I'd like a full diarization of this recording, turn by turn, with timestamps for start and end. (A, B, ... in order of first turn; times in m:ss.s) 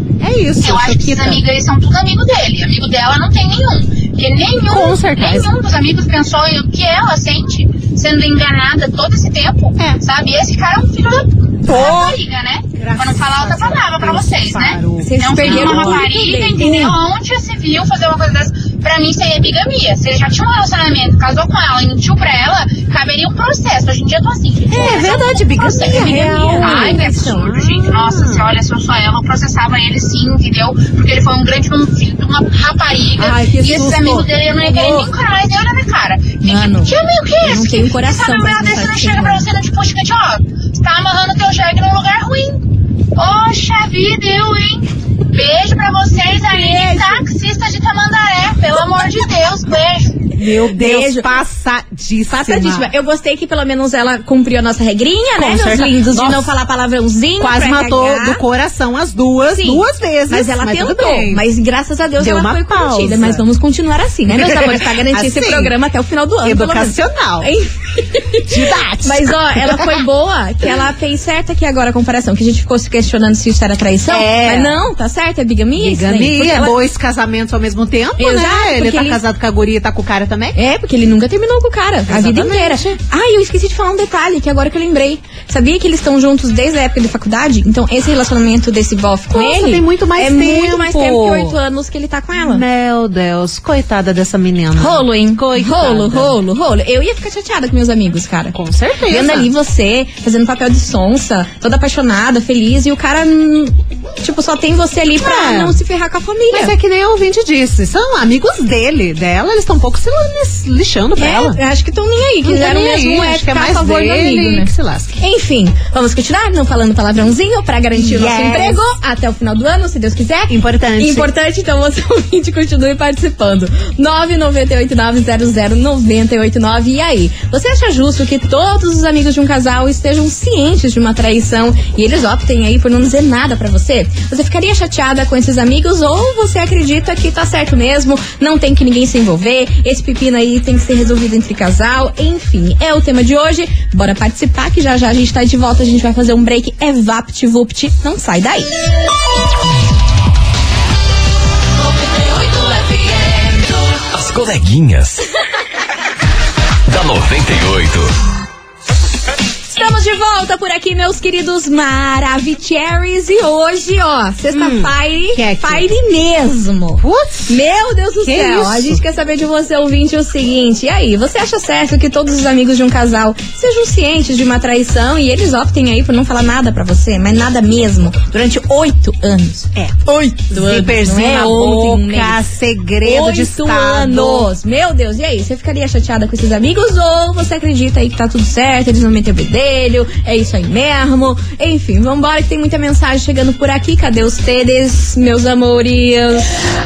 0:00.2-0:01.4 A
0:00.6-0:42.6 B
0:04.7-0:05.5 A
0:11.7-0:12.2 A
0:12.8-0:16.1 A
0:15.0-0:17.0 C
0:24.7-0:28.5 A
0:25.9-0:27.4 C
0:33.2-0:35.1 A
0:33.2-0:34.0 C
0:36.4-0:39.4 C
0:43.2-0:50.3 B
0:46.2-0:47.2 A
0:50.3-0:52.9 A
0:50.6-0:51.4 C
0:52.3-0:58.4 C
0:55.4-0:56.5 A
0:57.4-1:01.4 A
0:59.5-1:16.8 C
1:02.2-1:03.4 A
1:04.3-1:05.7 A
1:06.4-1:07.5 A
1:08.5-1:10.0 A
1:14.1-1:14.8 A
1:15.8-1:20.6 A
1:18.2-1:19.2 C
1:20.5-1:32.6 C
1:22.1-1:23.0 A
1:29.3-1:31.6 A
1:32.3-1:36.3 A
1:34.8-1:38.6 C
1:38.5-1:39.5 A
1:39.1-1:46.7 C
1:45.2-1:45.8 A
1:46.5-1:51.6 A
1:51.2-2:28.7 C
1:52.4-1:55.2 A
1:58.0-1:58.8 A
2:00.5-2:01.3 A
2:32.4-2:33.0 C
2:34.1-2:35.2 D
2:36.9-2:38.1 D
2:39.7-3:02.4 C
2:44.5-2:45.9 A
2:47.0-2:47.6 A
2:48.2-2:49.0 A
2:59.8-3:04.5 A
3:03.0-3:16.5 C